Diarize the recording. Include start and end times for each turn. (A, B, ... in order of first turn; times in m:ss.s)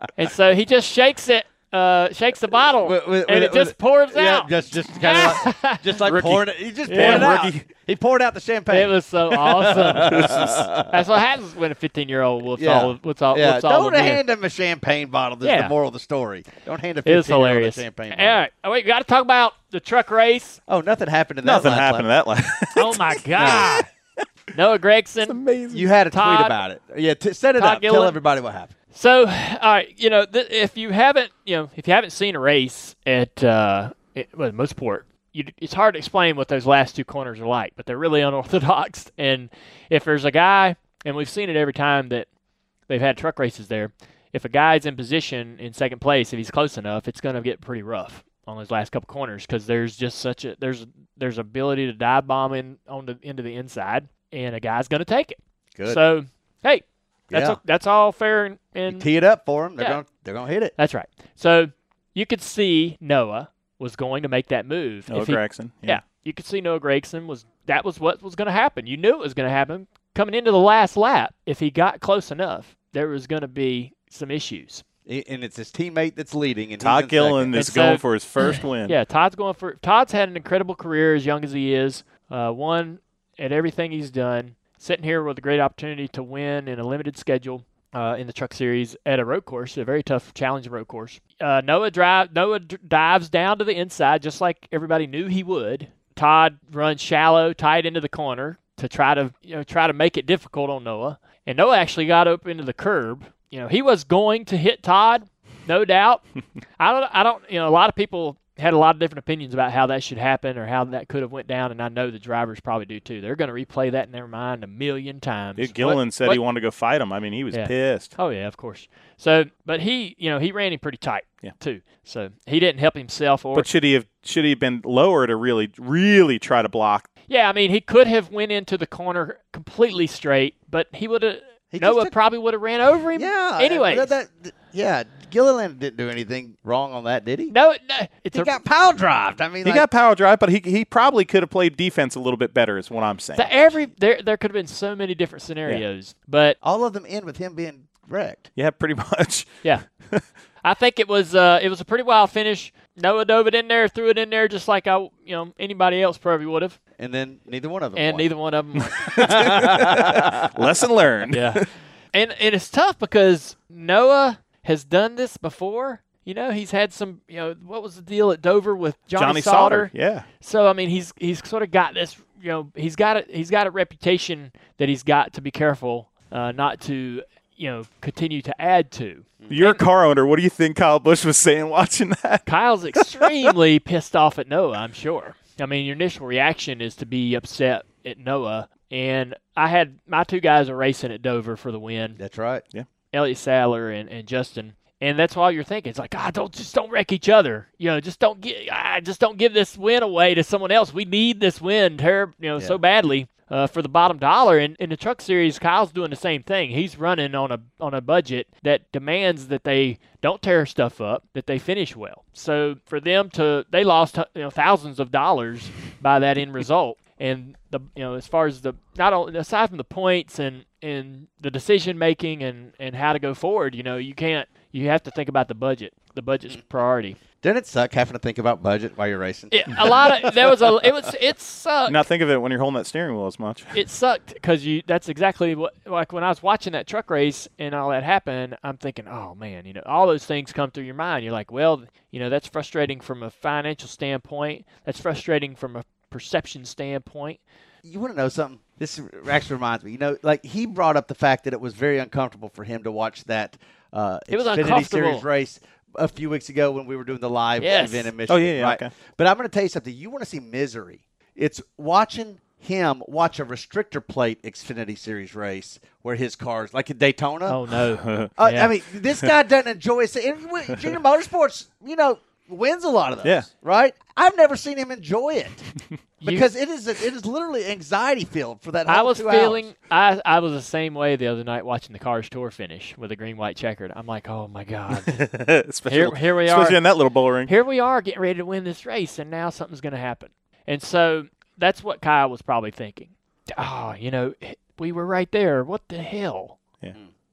0:00.2-0:07.4 A
0:02.8-0:11.2 B
0:06.9-0:07.6 C
0:08.7-0:14.2 A
0:12.6-0:18.4 B
0:15.4-0:15.7 A
0:17.0-0:20.6 A
0:20.7-0:22.1 B
0:21.4-0:23.7 C
0:22.8-0:23.9 A
0:23.4-0:23.8 B
0:24.5-0:25.4 A
0:25.3-0:25.9 C
0:25.7-0:28.7 B
0:26.1-0:26.6 A
0:27.6-0:28.2 A
0:28.9-0:42.3 A
0:42.9-0:59.1 A
0:55.8-0:56.0 B
0:57.3-0:57.6 B
0:58.9-1:00.8 B
1:00.8-1:14.8 A
1:05.1-1:06.0 C
1:15.1-1:17.6 B
1:16.8-1:19.0 C
1:17.6-1:46.2 A
1:46.8-1:56.4 A
1:55.6-1:58.1 C
1:57.5-2:03.7 A
2:03.5-2:07.1 C
2:07.3-2:14.1 A
2:11.7-2:12.1 B
2:13.2-2:17.5 B
2:17.5-2:18.6 A
2:18.3-2:19.9 B
2:19.6-2:23.5 C
2:23.4-2:26.6 A
2:26.6-2:28.5 B
2:28.6-2:29.6 C
2:30.6-2:36.8 A
2:37.0-2:38.3 B
2:38.0-2:39.2 A
2:39.0-2:41.6 C
2:39.1-2:40.6 B
2:41.3-2:59.8 A
2:49.2-2:50.2 C
2:59.5-3:03.5 C
3:02.5-3:12.2 A
3:12.2-3:12.6 B
3:13.1-3:47.2 A
3:47.4-3:51.0 B
3:49.5-3:52.0 A
3:51.9-3:53.8 C
3:53.7-4:07.4 A
4:07.8-4:27.6 B
4:14.3-4:15.2 A
4:17.6-4:18.1 A
4:18.3-4:18.9 C
4:27.5-4:28.7 A
4:28.0-4:28.3 C
4:28.4-4:35.7 B
4:36.2-4:39.7 B
4:38.9-4:45.2 A
4:45.1-4:47.5 C
4:45.9-4:46.8 A
4:47.5-4:56.6 A